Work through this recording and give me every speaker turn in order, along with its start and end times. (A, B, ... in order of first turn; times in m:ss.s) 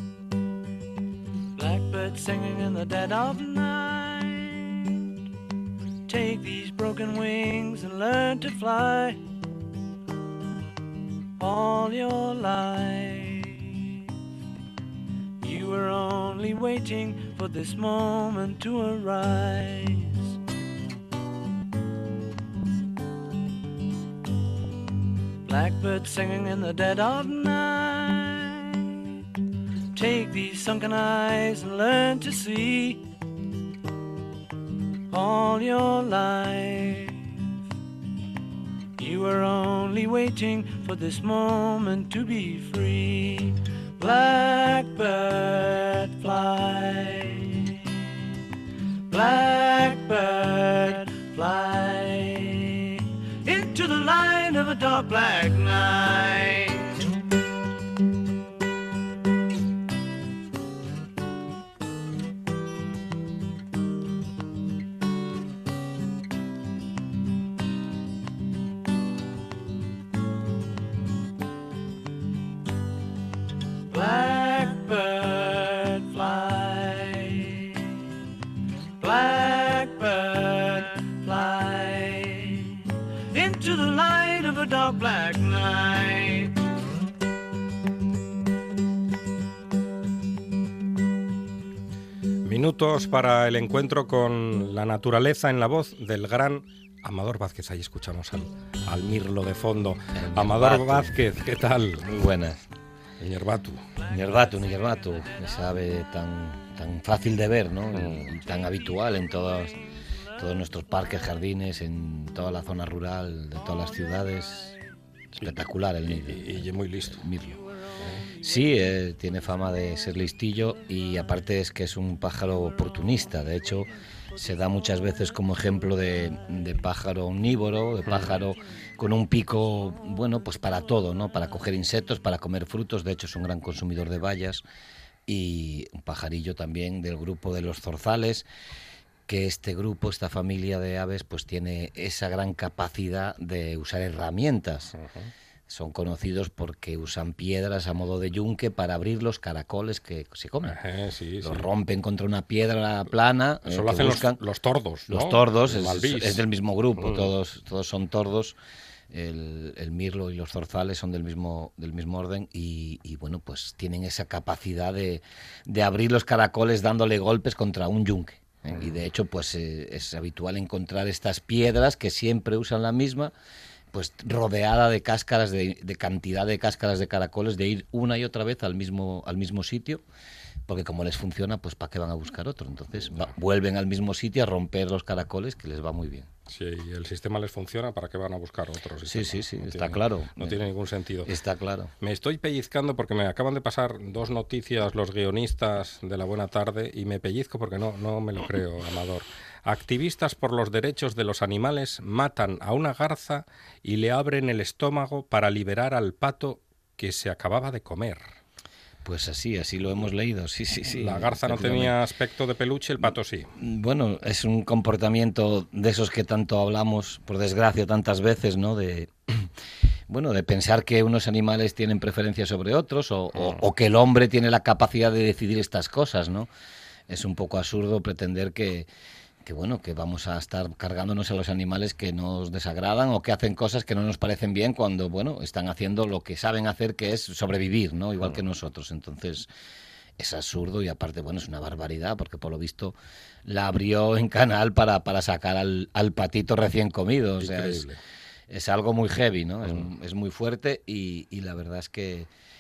0:01.6-0:05.0 A
0:06.1-0:09.2 A
0:11.4-0:13.8 A
0:15.4-0:20.3 A
0:25.5-0:29.0 A
0:29.9-0:33.0 A
0:35.1-0:37.4 A
0:39.0-0:48.0 A
0:49.1-0:57.1 A
1:13.9-1:17.9 A
1:19.0-1:22.8 A
1:23.3-1:26.6 A
1:32.4-1:42.1 B
1:40.2-1:41.2 C
1:41.9-1:42.6 C
1:43.2-1:43.8 B
1:44.1-1:49.7 C
1:48.0-1:48.3 B
1:50.4-1:54.8 C
1:55.4-1:57.6 C
1:56.1-1:57.3 B
1:57.8-1:58.9 A
1:58.4-2:14.6 C
2:08.1-2:08.4 B
2:15.3-2:18.5 C
2:19.3-2:25.0 C
2:25.0-2:25.3 B
2:25.7-2:30.8 C
2:30.6-2:31.7 B
2:31.4-2:34.4 C
2:33.7-2:36.4 B
2:35.1-2:38.6 C
2:37.0-2:37.3 B
2:39.1-2:53.3 C
2:53.9-3:00.0 C
3:00.7-3:06.3 C
3:06.5-3:11.3 B
3:09.1-3:10.6 C
3:11.2-3:11.9 C
3:12.0-3:28.2 B
3:29.0-3:31.9 C
3:31.0-3:33.5 B
3:33.0-3:39.5 C
3:40.1-3:46.5 C
3:47.1-3:48.9 C
3:49.4-3:59.5 C
4:00.2-4:07.9 C
4:07.4-4:08.0 B
4:08.5-4:12.3 C